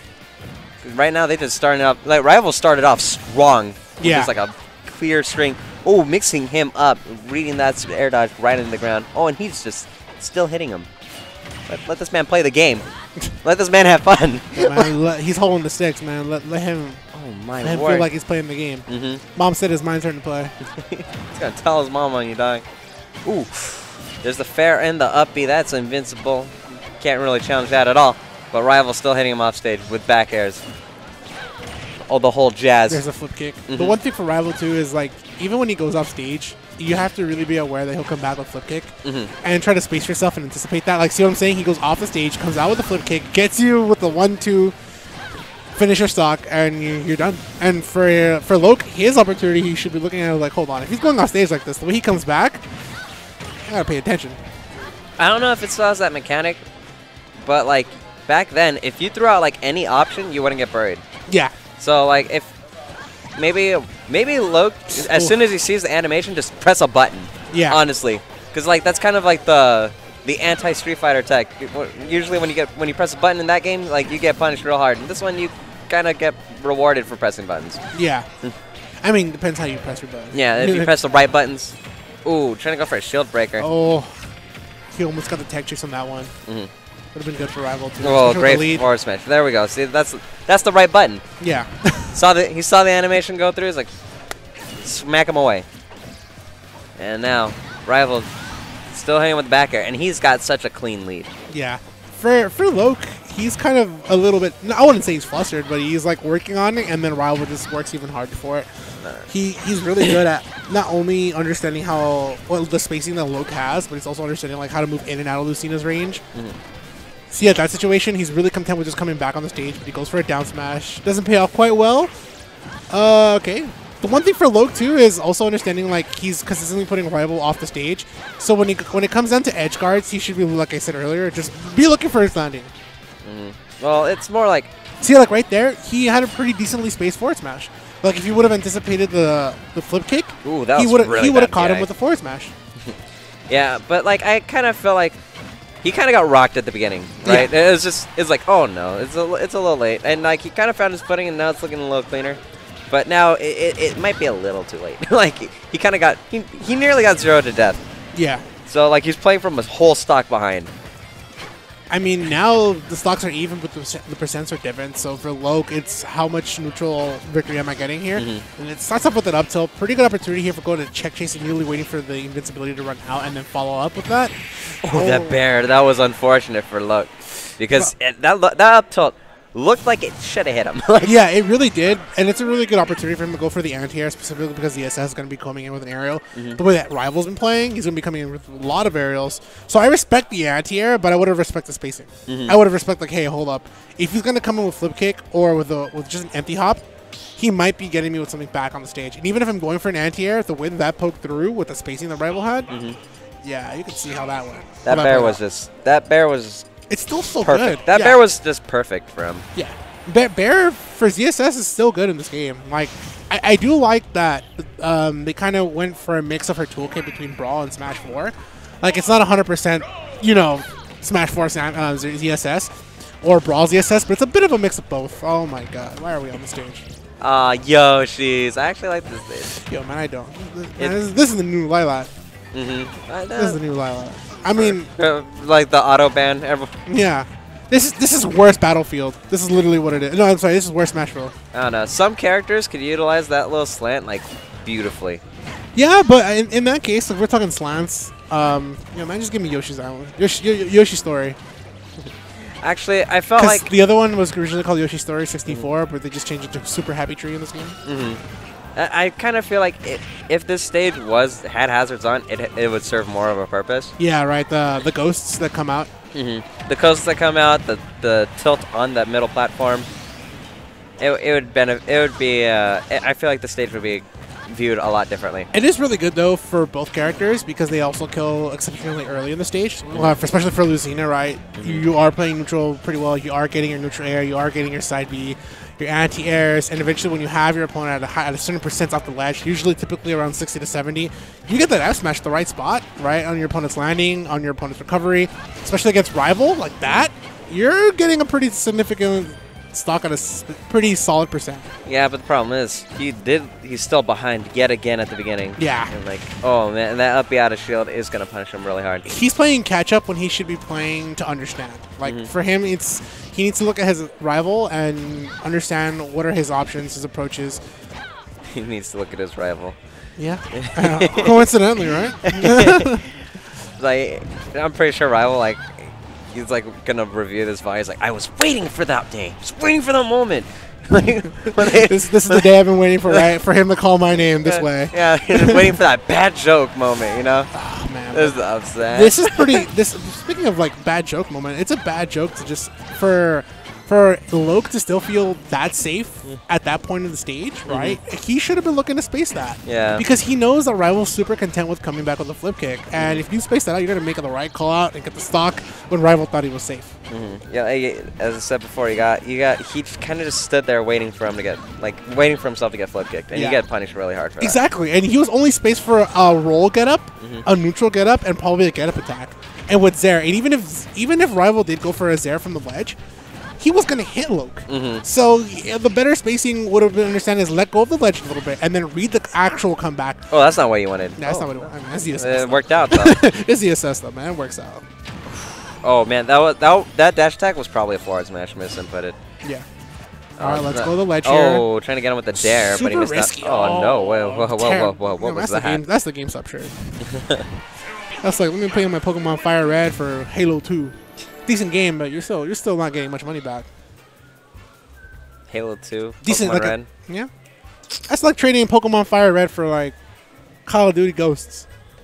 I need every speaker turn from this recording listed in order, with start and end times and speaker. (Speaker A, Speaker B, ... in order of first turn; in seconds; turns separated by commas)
Speaker A: 0.8-10.9, Speaker B: 4.0-4.3, Speaker A: 11.7-12.9, Speaker A: 13.4-14.9, Speaker B: 14.5-17.0, Speaker A: 17.1-18.1, Speaker B: 17.6-20.5, Speaker A: 18.9-19.2, Speaker A: 20.8-22.6, Speaker A: 23.2-30.6, Speaker A: 32.1-33.0, Speaker B: 32.9-44.8, Speaker A: 33.7-34.0, Speaker A: 39.0-39.3, Speaker B: 45.7-52.6, Speaker B: 53.6-54.4, Speaker A: 55.2-56.6, Speaker A: 57.4-61.0, Speaker B: 61.3-61.5, Speaker A: 61.8-62.5, Speaker A: 63.4-77.8, Speaker B: 64.9-65.3, Speaker B: 67.5-67.8, Speaker B: 77.9-78.3, Speaker B: 79.0-80.9, Speaker A: 80.3-83.7, Speaker B: 83.6-84.3, Speaker B: 84.9-86.3, Speaker B: 87.1-88.8, Speaker A: 88.0-91.2, Speaker B: 91.4-92.2, Speaker A: 92.1-93.9, Speaker A: 94.8-95.7, Speaker A: 97.0-98.3, Speaker A: 98.9-101.3, Speaker B: 101.5-116.2, Speaker A: 109.0-109.3, Speaker B: 117.3-122.1, Speaker B: 122.9-132.7, Speaker A: 133.2-134.7, Speaker B: 135.0-142.5, Speaker A: 140.4-141.9, Speaker A: 143.5-145.2, Speaker A: 145.8-157.8, Speaker B: 147.2-147.5, Speaker B: 158.1-158.5, Speaker A: 158.7-160.7, Speaker B: 161.9-175.4, Speaker A: 168.1-168.4, Speaker A: 174.8-181.2, Speaker B: 181.0-196.8, Speaker A: 186.3-186.6, Speaker A: 192.3-192.6, Speaker B: 197.4-202.7, Speaker A: 202.7-203.0, Speaker B: 203.4-205.4, Speaker A: 204.8-206.7, Speaker B: 206.9-208.2, Speaker A: 207.4-209.4, Speaker B: 209.5-226.8, Speaker A: 227.2-229.5, Speaker B: 229.5-232.1, Speaker A: 232.5-233.6, Speaker B: 233.3-234.9, Speaker A: 234.5-236.7, Speaker B: 236.8-241.3, Speaker A: 241.5-245.2, Speaker B: 245.7-251.4, Speaker A: 252.4-253.7, Speaker B: 253.4-257.8, Speaker A: 257.8-258.2, Speaker A: 258.8-263.9, Speaker B: 264.0-265.9, Speaker A: 266.1-269.9, Speaker A: 271.0-275.5, Speaker B: 275.5-301.7, Speaker A: 279.9-280.2, Speaker A: 281.6-281.9, Speaker A: 301.9-309.1, Speaker B: 305.6-305.9, Speaker B: 309.0-317.6, Speaker A: 312.0-312.3, Speaker A: 318.5-319.8, Speaker B: 320.2-323.1, Speaker A: 320.5-321.5, Speaker A: 322.2-323.1, Speaker A: 323.8-332.5, Speaker B: 331.6-335.7, Speaker A: 334.4-337.5, Speaker B: 337.5-356.9, Speaker A: 338.1-339.7, Speaker A: 347.7-348.0, Speaker A: 349.6-350.0, Speaker A: 352.9-353.2, Speaker A: 357.1-364.6, Speaker B: 363.3-363.6, Speaker B: 364.4-373.0, Speaker A: 367.2-367.4, Speaker B: 373.6-380.3, Speaker A: 374.7-375.0, Speaker A: 380.3-383.2, Speaker B: 381.2-384.8, Speaker A: 385.8-389.1, Speaker A: 390.4-395.8, Speaker B: 390.4-391.6, Speaker B: 392.3-396.9, Speaker A: 397.1-397.4, Speaker B: 398.2-403.6, Speaker A: 405.5-406.9, Speaker B: 406.2-407.3, Speaker B: 408.1-409.9, Speaker B: 410.6-411.6